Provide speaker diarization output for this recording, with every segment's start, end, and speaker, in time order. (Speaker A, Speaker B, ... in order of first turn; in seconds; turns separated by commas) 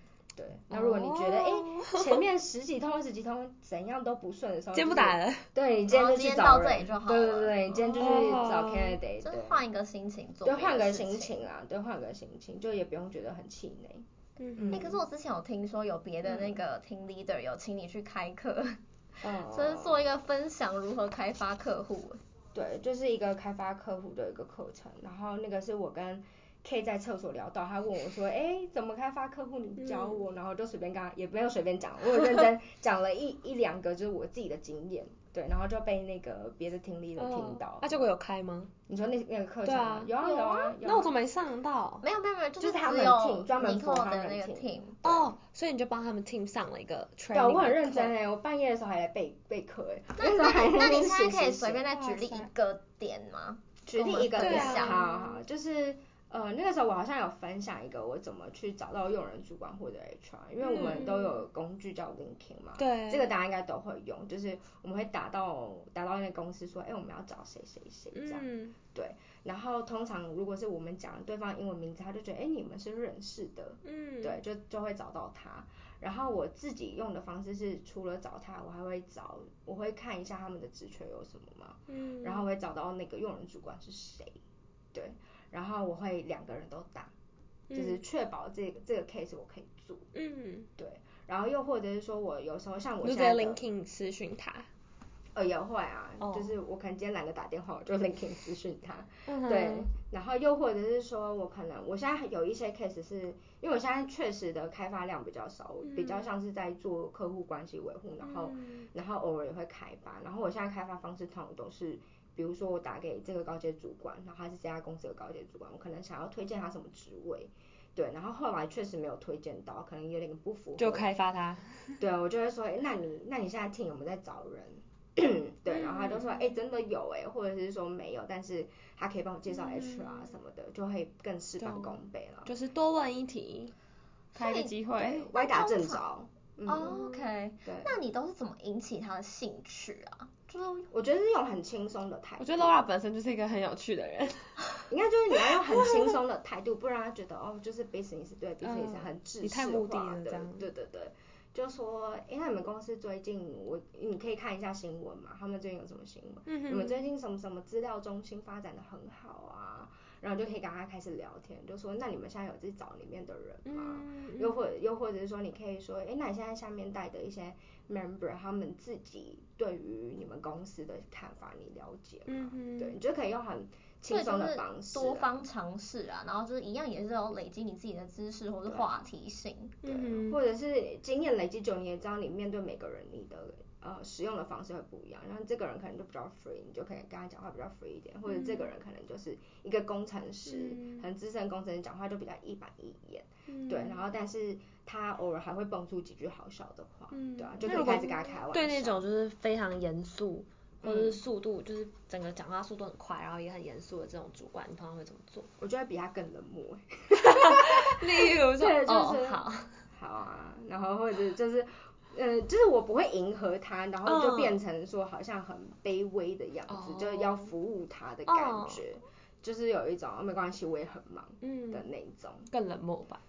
Speaker A: 0.3-9.6, Speaker B: 0.7-2.1, Speaker B: 4.7-5.5, Speaker C: 5.9-8.3, Speaker B: 8.0-9.0, Speaker C: 9.2-11.4, Speaker A: 10.4-14.0, Speaker B: 14.4-15.0, Speaker A: 14.6-14.9, Speaker C: 14.7-22.2, Speaker A: 16.2-16.6, Speaker A: 19.2-20.2, Speaker A: 22.5-38.0, Speaker B: 29.8-30.2, Speaker B: 37.2-38.7, Speaker A: 38.9-41.1, Speaker B: 39.6-40.1, Speaker C: 40.2-40.7, Speaker B: 40.8-42.0, Speaker C: 42.0-45.3, Speaker A: 42.6-44.7, Speaker B: 45.0-48.1, Speaker A: 47.3-51.8, Speaker C: 50.2-55.0, Speaker B: 51.9-52.5, Speaker A: 53.9-84.4, Speaker B: 54.4-55.4, Speaker C: 60.6-61.0, Speaker B: 60.7-61.4, Speaker B: 62.8-63.3, Speaker B: 68.1-68.7, Speaker B: 73.8-74.4, Speaker B: 81.9-82.5, Speaker A: 84.9-87.1, Speaker B: 87.7-88.0, Speaker A: 87.7-90.1, Speaker B: 90.1-90.7, Speaker A: 90.8-93.6, Speaker B: 93.0-94.7, Speaker A: 95.3-121.1, Speaker B: 96.2-96.5, Speaker B: 99.3-99.9, Speaker B: 105.9-106.2, Speaker B: 108.2-108.8, Speaker B: 120.8-122.0, Speaker A: 122.0-132.5, Speaker B: 125.7-126.3, Speaker B: 129.5-130.2, Speaker B: 131.6-133.7, Speaker C: 134.3-134.8, Speaker B: 134.3-135.3, Speaker A: 134.9-137.0, Speaker C: 135.3-136.0, Speaker C: 136.7-140.9, Speaker B: 136.8-137.1, Speaker A: 137.6-137.9, Speaker A: 140.9-142.8, Speaker B: 142.4-144.6, Speaker A: 144.9-175.4, Speaker B: 148.6-150.7, Speaker B: 156.4-157.0, Speaker B: 163.7-164.6, Speaker B: 172.3-172.9, Speaker C: 174.1-179.7, Speaker A: 178.7-179.1, Speaker B: 179.8-180.4, Speaker A: 179.8-199.0, Speaker B: 188.3-188.7, Speaker B: 190.4-191.0, Speaker B: 193.5-194.0, Speaker B: 197.1-205.4, Speaker A: 200.8-201.2, Speaker A: 205.6-222.5, Speaker B: 207.2-209.8, Speaker B: 214.0-214.6, Speaker B: 216.7-217.5, Speaker B: 218.3-218.8, Speaker B: 221.4-221.8, Speaker B: 222.5-223.2